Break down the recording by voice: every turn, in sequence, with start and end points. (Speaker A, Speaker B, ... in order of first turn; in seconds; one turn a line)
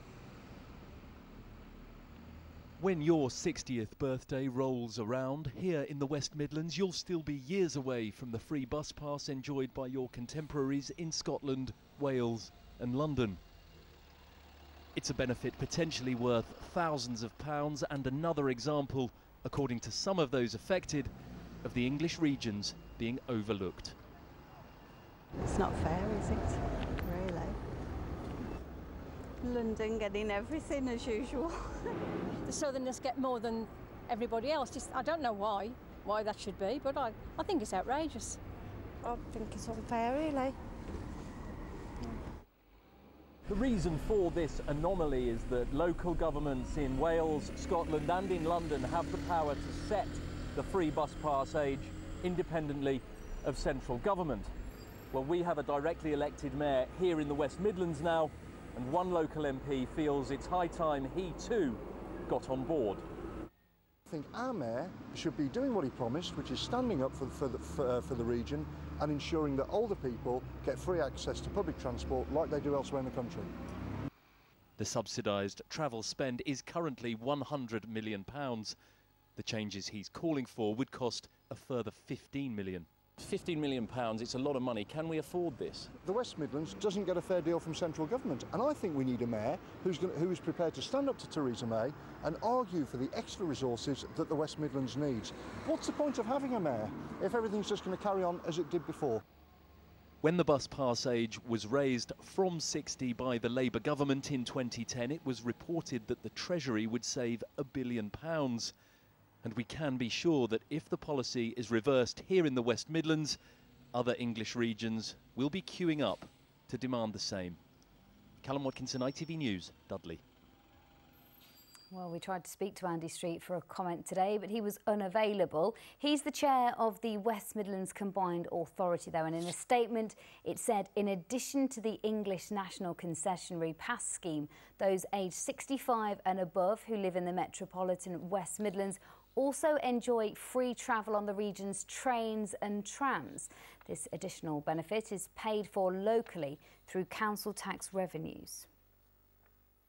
Speaker A: 2.8-13.4
Speaker A: 14.9-21.1
Speaker A: 21.6-24.0
Speaker B: 25.4-27.6
Speaker B: 29.4-31.9
Speaker C: 32.5-38.4
Speaker B: 39.0-40.6
Speaker A: 43.5-54.5
Speaker A: 55.1-63.0
Speaker D: 64.1-73.5
Speaker A: 74.8-78.8
Speaker A: 79.4-85.9
Speaker D: 86.0-99.2
Speaker A: 100.2-108.7
Speaker A: 109.4-113.4
Speaker A: 113.9-117.6
Speaker A: 118.4-120.2
Speaker E: 121.9-148.7